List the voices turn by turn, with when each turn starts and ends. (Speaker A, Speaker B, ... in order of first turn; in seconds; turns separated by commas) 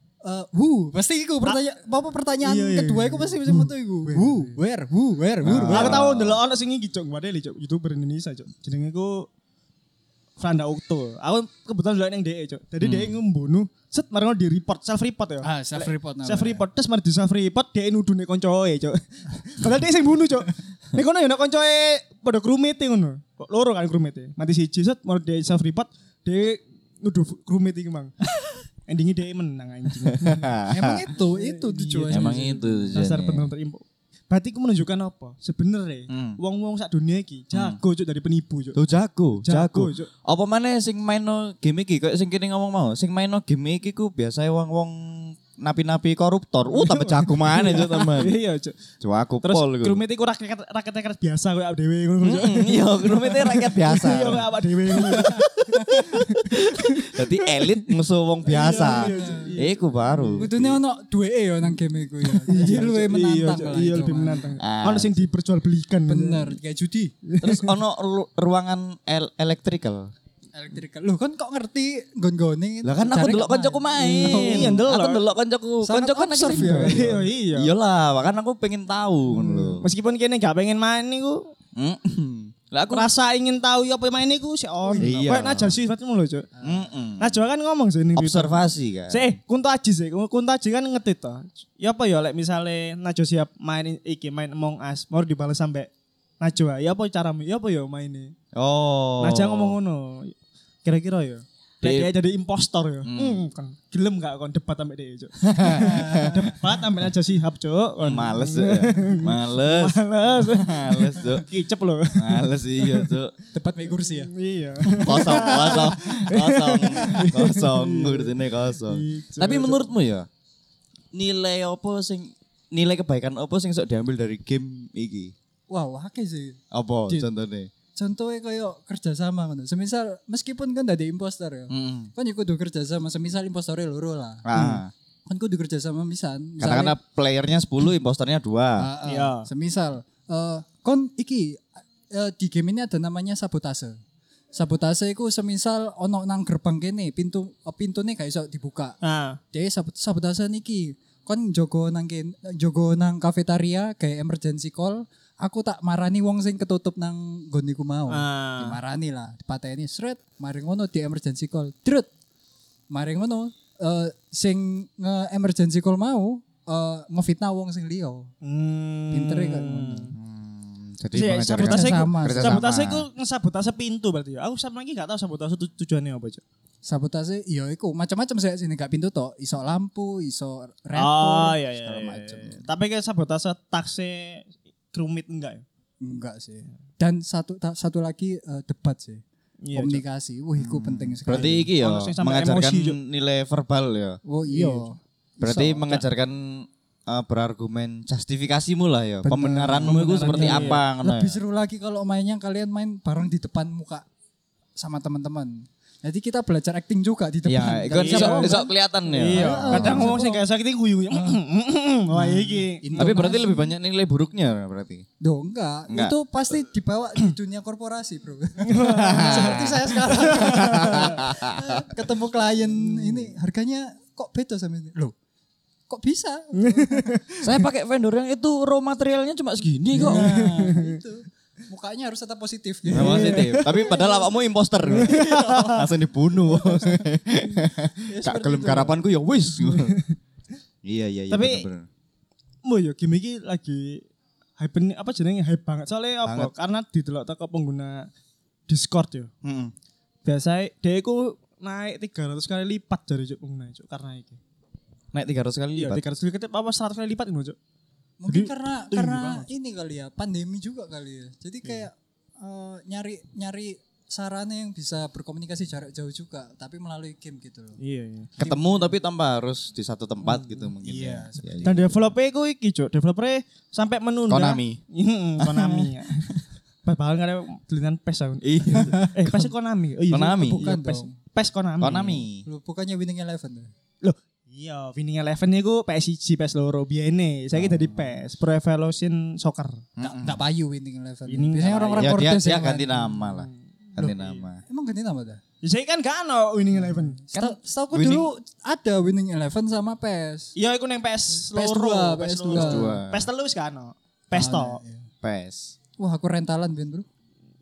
Speaker A: 0.2-6.0, Speaker B: 2.4-4.5, Speaker C: 5.4-6.4, Speaker B: 5.7-9.3, Speaker B: 10.4-30.5, Speaker C: 12.8-13.2, Speaker A: 15.4-16.7, Speaker C: 30.0-31.0, Speaker A: 30.7-33.0, Speaker B: 31.2-32.4, Speaker C: 32.1-33.5, Speaker B: 32.9-38.8, Speaker C: 36.1-36.4, Speaker C: 37.5-37.8, Speaker C: 38.8-48.4, Speaker B: 39.4-40.1, Speaker B: 46.7-48.8, Speaker C: 49.0-50.0, Speaker B: 49.4-60.5, Speaker C: 52.2-54.5, Speaker A: 55.0-56.3, Speaker C: 56.5-60.8, Speaker A: 58.7-59.5, Speaker A: 60.4-64.5, Speaker B: 62.2-66.6, Speaker C: 64.6-65.2, Speaker A: 66.1-67.1, Speaker B: 67.3-67.8, Speaker C: 67.4-70.1, Speaker A: 70.5-74.8, Speaker C: 72.8-79.9, Speaker B: 74.0-75.2, Speaker A: 75.8-77.3, Speaker B: 76.6-77.7, Speaker A: 79.4-79.7, Speaker B: 79.7-81.5, Speaker C: 81.8-83.1, Speaker B: 82.9-86.5, Speaker A: 84.8-85.2, Speaker C: 85.0-85.8, Speaker A: 86.6-86.9, Speaker C: 86.6-87.4, Speaker B: 87.2-95.9, Speaker C: 88.2-89.4, Speaker B: 96.4-98.3, Speaker C: 98.5-99.8, Speaker B: 99.2-113.2, Speaker C: 101.8-102.1, Speaker C: 103.0-103.4, Speaker C: 105.4-106.5, Speaker A: 105.7-106.5, Speaker C: 108.0-111.5, Speaker C: 112.2-113.3, Speaker A: 113.5-114.3, Speaker B: 114.0-119.8, Speaker A: 114.8-115.9, Speaker C: 115.0-120.3, Speaker C: 121.1-125.3, Speaker A: 125.7-127.3, Speaker C: 126.7-127.7, Speaker A: 128.0-134.5, Speaker C: 131.7-132.1, Speaker C: 134.4-134.9, Speaker B: 134.5-134.8, Speaker A: 135.3-137.0, Speaker C: 136.6-138.9, Speaker A: 138.8-144.0, Speaker B: 139.1-139.5, Speaker A: 144.5-149.0, Speaker B: 149.0-149.4, Speaker A: 149.5-162.1, Speaker B: 158.1-158.8, Speaker A: 162.9-168.3, Speaker B: 168.4-170.1, Speaker A: 169.1-170.1, Speaker C: 170.1-173.1, Speaker B: 171.1-176.4, Speaker A: 171.6-172.6, Speaker A: 176.8-182.7, Speaker B: 180.9-185.6, Speaker A: 186.0-189.2, Speaker B: 189.6-190.0, Speaker A: 189.7-191.7, Speaker C: 190.6-194.2, Speaker B: 191.3-193.0, Speaker A: 194.3-196.0, Speaker B: 194.5-194.9, Speaker C: 195.4-201.4, Speaker A: 199.2-204.1, Speaker B: 199.8-200.8, Speaker A: 204.8-208.7, Speaker C: 207.5-210.2, Speaker B: 207.9-213.3, Speaker A: 209.2-210.5, Speaker A: 212.1-213.7, Speaker C: 213.0-215.1, Speaker A: 215.2-225.1, Speaker C: 215.9-216.1, Speaker B: 218.7-221.2, Speaker C: 218.9-221.8, Speaker B: 222.9-223.3, Speaker A: 225.9-227.2, Speaker B: 226.6-227.4, Speaker C: 227.4-230.6, Speaker A: 229.9-234.2, Speaker B: 230.0-231.0, Speaker B: 232.9-234.0, Speaker C: 232.9-240.0, Speaker B: 234.9-235.8, Speaker A: 235.0-235.9, Speaker A: 236.5-237.0, Speaker A: 238.1-239.0, Speaker B: 239.6-240.0, Speaker C: 240.8-241.9, Speaker B: 241.3-241.7, Speaker B: 242.6-244.1, Speaker B: 244.6-248.1, Speaker C: 246.2-246.5, Speaker B: 248.7-249.3, Speaker C: 249.4-249.7, Speaker B: 250.2-254.4, Speaker C: 255.1-256.0, Speaker B: 255.8-257.6, Speaker A: 258.2-267.8, Speaker B: 258.3-259.5, Speaker B: 267.8-268.3, Speaker A: 268.4-268.9, Speaker C: 268.4-271.9, Speaker A: 270.8-271.9, Speaker B: 271.6-276.3, Speaker C: 274.3-274.8, Speaker C: 275.4-276.4, Speaker B: 276.9-282.2, Speaker C: 278.4-279.5, Speaker A: 278.7-279.2, Speaker C: 280.1-280.7, Speaker A: 280.3-281.1, Speaker C: 281.8-282.5, Speaker A: 282.4-283.7, Speaker B: 284.0-289.8, Speaker C: 287.6-288.1, Speaker C: 290.0-290.4, Speaker A: 290.0-293.2, Speaker B: 291.3-292.1, Speaker C: 292.0-294.6, Speaker B: 293.3-294.4, Speaker A: 294.7-295.4, Speaker B: 295.6-297.2, Speaker A: 296.9-300.5, Speaker C: 297.3-298.3, Speaker B: 300.6-304.8, Speaker A: 301.4-303.0, Speaker C: 302.5-303.3, Speaker A: 304.3-305.1, Speaker C: 305.2-305.7, Speaker A: 306.0-307.1